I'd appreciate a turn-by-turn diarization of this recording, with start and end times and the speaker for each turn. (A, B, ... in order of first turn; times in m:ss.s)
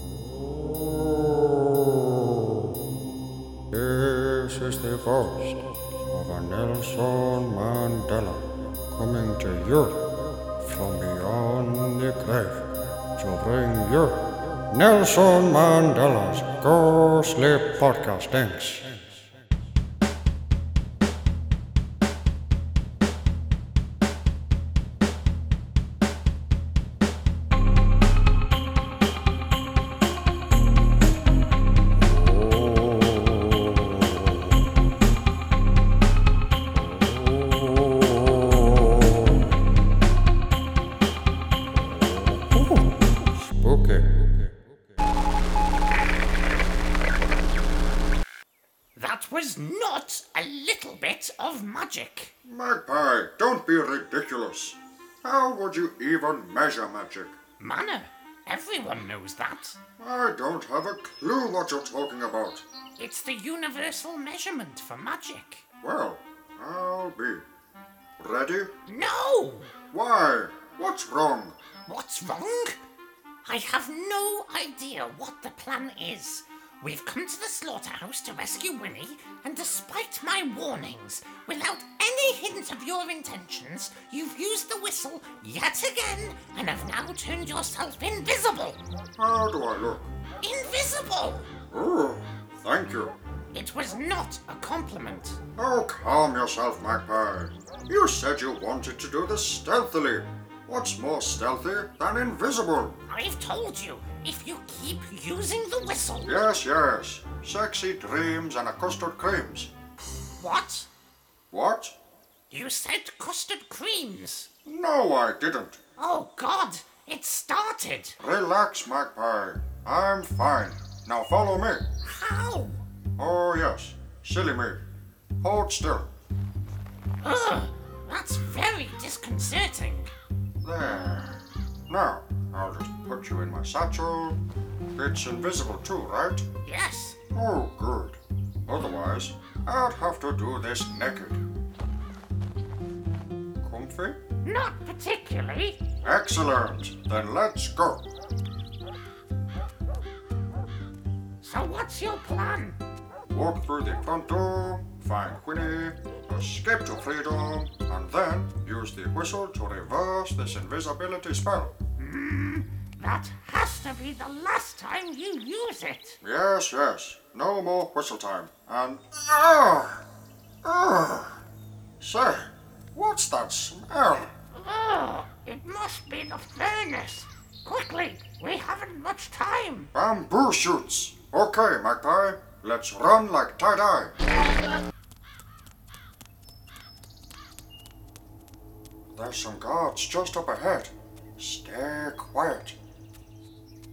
0:03.7-0:19.2 A
0:36.9-0:38.6 A
0:42.0-0:44.5 A
0:49.0-0:52.3 B
0:52.4-0:57.4 A
0:57.6-0:59.8 B
1:00.0-1:02.6 A
1:03.0-1:05.6 B
1:05.8-1:07.4 A
1:08.2-1:08.7 A
1:08.8-1:09.7 B
1:09.9-1:11.6 A
1:11.8-1:12.8 B
1:13.4-1:28.8 B
1:29.2-1:30.1 A
1:30.4-1:31.5 B
1:31.7-1:33.2 A
1:33.5-1:35.4 B
1:35.6-1:43.0 A
1:43.1-1:46.4 B
1:46.2-1:49.7 A
1:50.4-1:50.9 B
1:51.5-1:52.0 A
1:52.5-1:54.5 B
1:54.6-1:55.8 A
1:56.0-1:58.2 B
1:58.2-2:01.8 A
2:02.0-2:02.8 B
2:03.2-2:04.8 A
2:05.4-2:06.1 A
2:07.2-2:10.1 B
2:10.6-2:14.4 A
2:15.0-2:16.4 A
2:16.6-2:17.2 B
2:17.3-2:21.4 A
2:23.6-2:24.2 A
2:24.4-2:25.8 B
2:26.0-2:28.0 A
2:31.4-2:32.8 B
2:33.3-2:41.7 A
2:42.0-2:46.2 B
2:46.2-2:50.1 A
2:50.6-2:51.4 A
2:52.0-2:54.3 A
2:54.5-2:59.9 B
2:59.9-3:04.1 A
3:09.1-3:12.8 A